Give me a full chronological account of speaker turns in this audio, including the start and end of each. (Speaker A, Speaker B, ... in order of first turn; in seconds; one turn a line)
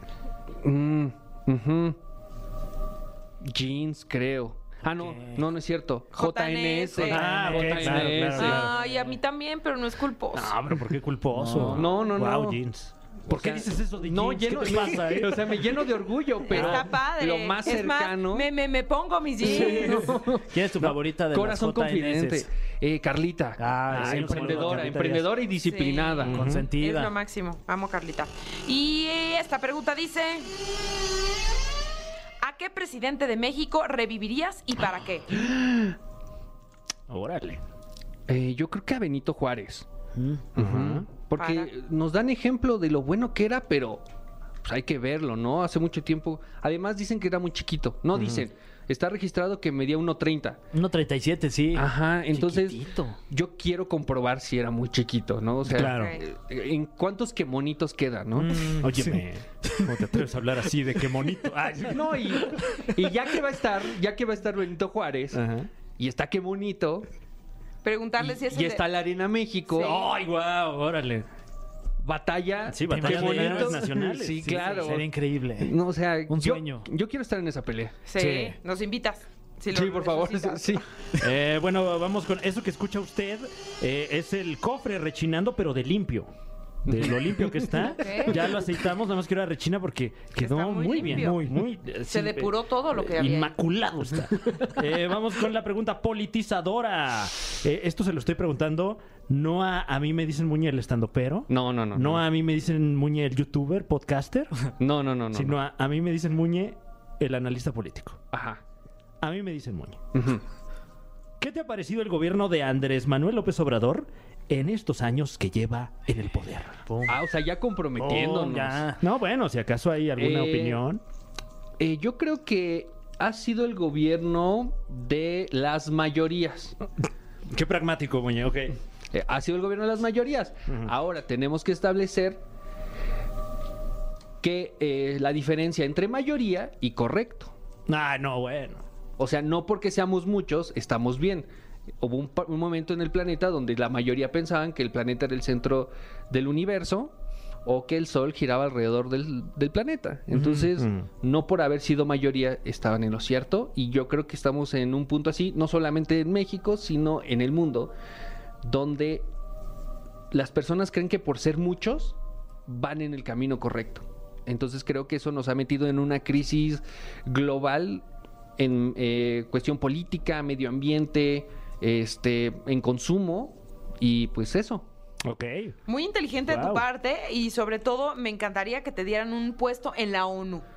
Speaker A: 0.6-2.0
Speaker A: 3.4-8.7
Speaker B: 5.0-5.4
Speaker C: 6.1-7.2
Speaker D: 7.0-8.7
Speaker B: 7.1-8.6
Speaker C: 8.3-10.6
Speaker D: 10.3-15.3
Speaker B: 11.3-11.9
Speaker A: 11.6-12.6
Speaker A: 13.3-18.5
Speaker B: 14.5-15.4
Speaker C: 16.5-20.1
Speaker D: 16.5-16.9
Speaker A: 19.4-20.6
Speaker B: 19.5-22.5
Speaker A: 21.3-26.4
Speaker B: 23.6-25.3
Speaker D: 23.9-25.1
Speaker C: 25.6-30.5
Speaker D: 26.2-26.7
Speaker B: 26.3-27.1
Speaker C: 32.4-35.3
Speaker D: 37.1-37.6
Speaker A: 38.3-39.9
Speaker B: 40.2-40.4
Speaker A: 40.6-44.0
Speaker D: 40.6-41.1
Speaker C: 41.4-41.7
Speaker A: 44.6-50.6
Speaker D: 48.1-48.4
Speaker B: 50.7-53.2
Speaker A: 51.7-58.8
Speaker D: 55.7-56.2
Speaker C: 55.9-56.2
Speaker B: 58.4-60.1
Speaker D: 58.4-62.4
Speaker A: 61.9-65.4
Speaker D: 65.3-65.7
Speaker A: 66.0-67.1
Speaker C: 67.8-68.9
Speaker A: 68.2-70.1
Speaker C: 69.7-70.0
Speaker D: 69.8-71.3
Speaker A: 72.0-75.1
Speaker D: 72.7-74.8
Speaker B: 72.9-75.7
Speaker A: 75.6-78.0
Speaker B: 76.3-76.9
Speaker C: 78.1-80.8
Speaker D: 78.2-78.5
Speaker A: 79.7-81.0
Speaker D: 81.2-86.3
Speaker A: 86.9-88.5
Speaker D: 86.9-104.7
Speaker C: 87.8-88.3
Speaker C: 90.3-93.6
Speaker A: 101.5-102.2
Speaker A: 104.8-105.6
Speaker D: 105.3-108.2
Speaker A: 108.3-108.6
Speaker D: 109.2-110.0
Speaker A: 110.1-110.4
Speaker D: 111.4-116.8
Speaker B: 116.9-117.2
Speaker A: 117.1-118.8
Speaker B: 118.0-119.0
Speaker D: 119.0-121.0
Speaker A: 120.2-120.8
Speaker A: 121.8-126.8
Speaker D: 127.5-128.8
Speaker A: 129.1-132.4
Speaker A: 134.4-137.5
Speaker D: 137.9-138.8
Speaker A: 139.2-141.5
Speaker A: 142.0-147.1
Speaker A: 147.7-157.9
Speaker D: 150.3-151.1
Speaker A: 158.6-159.3
Speaker A: 160.3-162.2
Speaker A: 162.7-168.0
Speaker A: 168.6-174.9
Speaker D: 175.2-175.8
Speaker C: 175.9-180.7
Speaker D: 176.5-176.8